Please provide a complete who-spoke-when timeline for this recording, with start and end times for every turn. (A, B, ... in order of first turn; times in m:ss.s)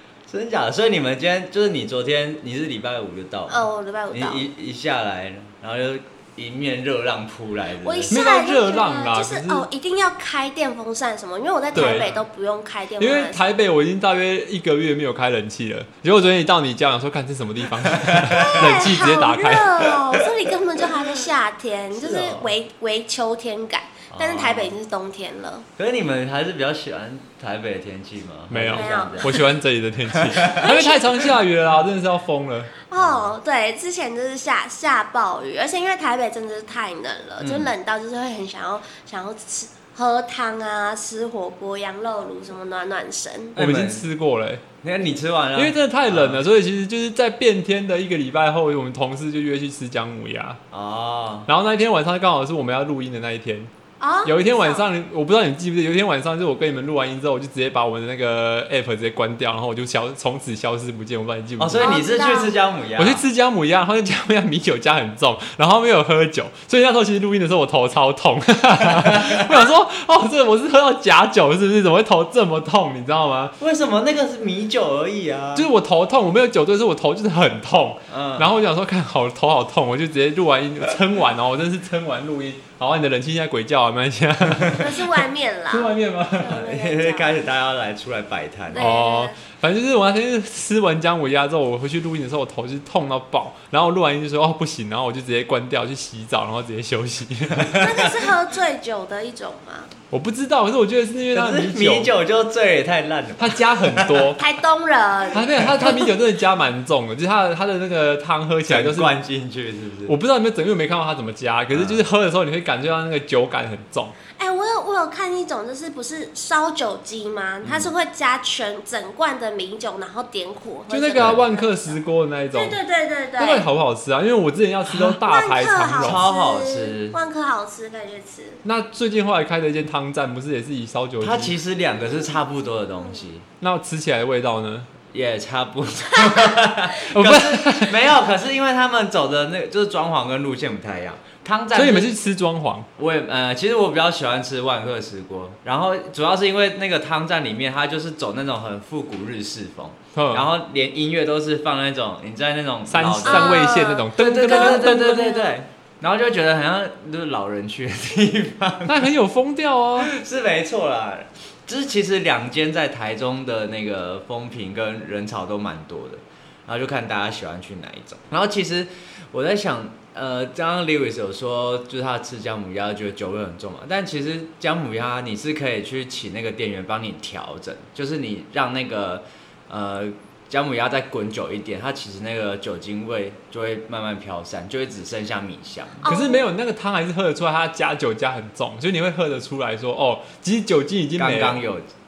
0:00.3-0:08.2 A
0:03.5-0:04.4 B
0:07.8-0:13.4 B
0:08.1-0:09.6 C
0:11.7-0:12.2 A
0:11.7-0:12.1 C
0:13.0-0:19.9 C
0:17.8-0:18.7 A
0:18.3-0:25.6 B
0:21.9-0:22.5 A
0:24.1-0:24.7 A
0:25.8-0:29.4 A
0:28.5-0:32.7 C
0:28.6-0:29.4 B
0:30.1-0:30.7 A
0:30.5-0:31.2 B
0:32.9-0:43.6 B
0:33.0-0:33.3 A
0:37.4-0:37.7 A
0:43.6-0:44.0 A
0:43.6-0:44.6 C
0:44.8-0:46.4 A
0:45.6-0:50.6 C
0:50.7-0:51.5 A
0:51.5-0:53.7 C
0:54.0-0:54.8 B
0:54.2-1:01.9 C
1:01.6-1:03.2 A
1:01.8-1:02.5 B
1:03.0-1:13.5 C
1:08.8-1:09.5 A
1:13.6-1:15.7 A
1:15.5-1:26.6 C
1:18.1-1:18.5 A
1:24.7-1:27.4 B
1:26.4-1:29.0 A
1:28.7-1:29.3 B
1:28.8-1:37.8 C
1:37.5-1:38.2 A
1:37.8-1:39.9 B
1:40.1-1:42.1 C
1:41.3-1:44.3 A
1:43.4-1:44.4 C
1:44.4-1:46.1 B
1:45.3-1:46.1 A
1:45.3-1:49.1 C
1:48.7-1:50.1 A
1:50.1-1:54.1 C
1:51.7-1:52.0 A
1:54.4-2:02.0 B
1:57.6-1:57.9 A
2:00.9-2:02.8 C
2:02.5-2:03.7 B
2:03.4-2:06.2 C
2:04.9-2:05.2 A
2:05.2-2:08.6 B
2:06.0-2:07.2 A
2:08.6-2:11.6 C
2:11.2-2:13.4 A
2:13.6-2:14.9 C
2:15.1-2:22.1 A
2:16.2-2:16.5 B
2:17.0-2:17.9 C
2:21.7-2:22.9 C
2:23.0-2:39.1 A
2:30.1-2:30.5 C
2:32.9-2:35.4 C
2:33.2-2:35.5 B
2:38.8-2:40.1 C
2:40.0-3:06.1 A
3:06.0-3:06.4 B
3:06.0-3:11.6 C
3:11.2-3:11.9 A